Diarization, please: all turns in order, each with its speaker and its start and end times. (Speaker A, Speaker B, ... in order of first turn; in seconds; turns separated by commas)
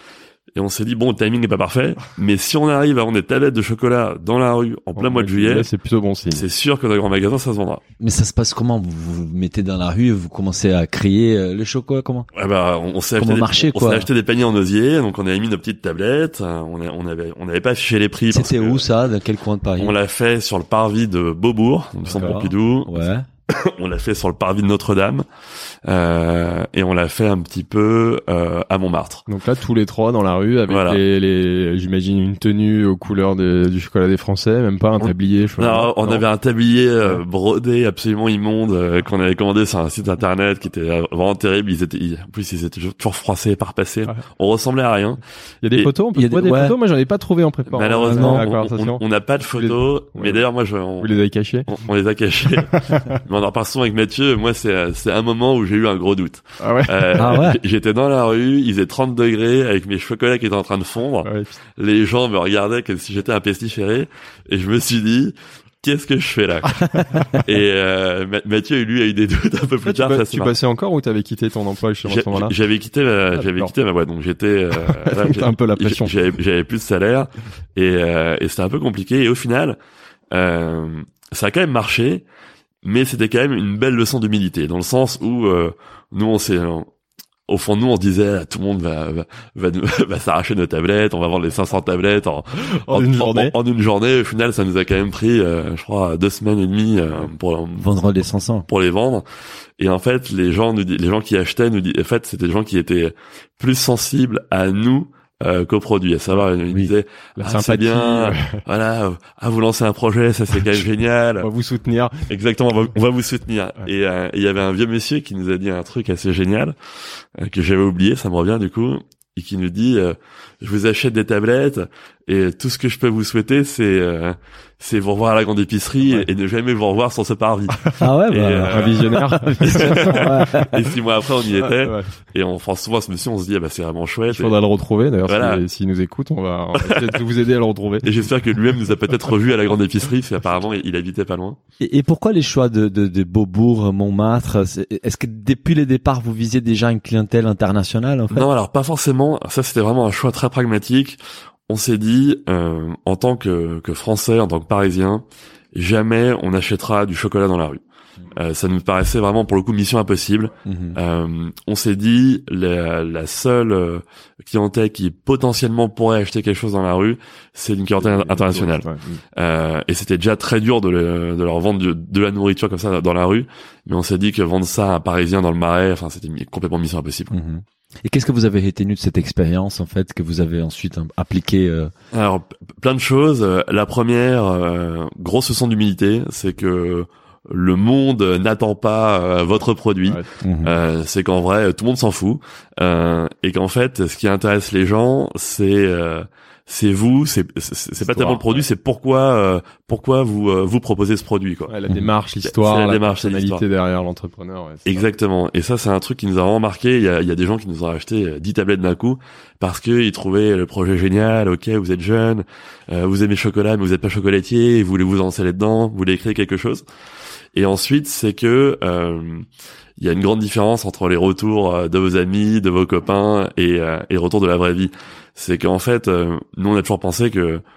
Speaker A: 0.6-5.7, Speaker B: 5.0-6.4, Speaker A: 6.3-7.8, Speaker C: 8.0-12.3, Speaker A: 12.3-18.9, Speaker C: 13.2-14.1, Speaker C: 18.3-19.9, Speaker A: 19.8-23.0, Speaker C: 22.1-23.2, Speaker A: 23.5-25.3, Speaker A: 25.9-29.3, Speaker B: 29.3-36.2, Speaker A: 30.7-31.0, Speaker A: 35.6-45.2, Speaker B: 45.6-49.0, Speaker C: 46.1-46.8, Speaker A: 47.7-51.1, Speaker C: 48.1-48.5, Speaker B: 49.5-50.4, Speaker B: 51.0-51.7, Speaker A: 51.7-70.5, Speaker B: 52.7-53.2, Speaker B: 56.6-57.4, Speaker C: 57.2-57.6, Speaker B: 61.2-61.5, Speaker B: 69.8-72.5, Speaker A: 72.1-79.8, Speaker B: 73.4-73.7, Speaker B: 74.7-76.2, Speaker A: 80.3-82.2, Speaker A: 82.8-86.9, Speaker A: 87.5-97.9, Speaker B: 92.6-93.5, Speaker C: 97.8-98.7, Speaker A: 98.7-99.3, Speaker A: 99.8-111.5, Speaker B: 107.4-108.6, Speaker B: 111.4-112.3, Speaker A: 112.3-134.6, Speaker C: 128.0-130.8, Speaker B: 128.7-130.8, Speaker B: 131.6-132.1, Speaker B: 134.3-138.1, Speaker A: 135.2-135.7, Speaker A: 136.7-137.2, Speaker A: 138.0-141.6, Speaker C: 141.8-148.5, Speaker A: 148.3-177.3, Speaker C: 160.7-161.0, Speaker B: 168.0-169.2, Speaker C: 177.3-181.9, Speaker A: 182.1-201.7, Speaker C: 190.4-190.7, Speaker B: 198.0-198.6, Speaker B: 201.7-205.0, Speaker A: 202.4-203.6, Speaker A: 204.9-216.8, Speaker A: 217.5-227.6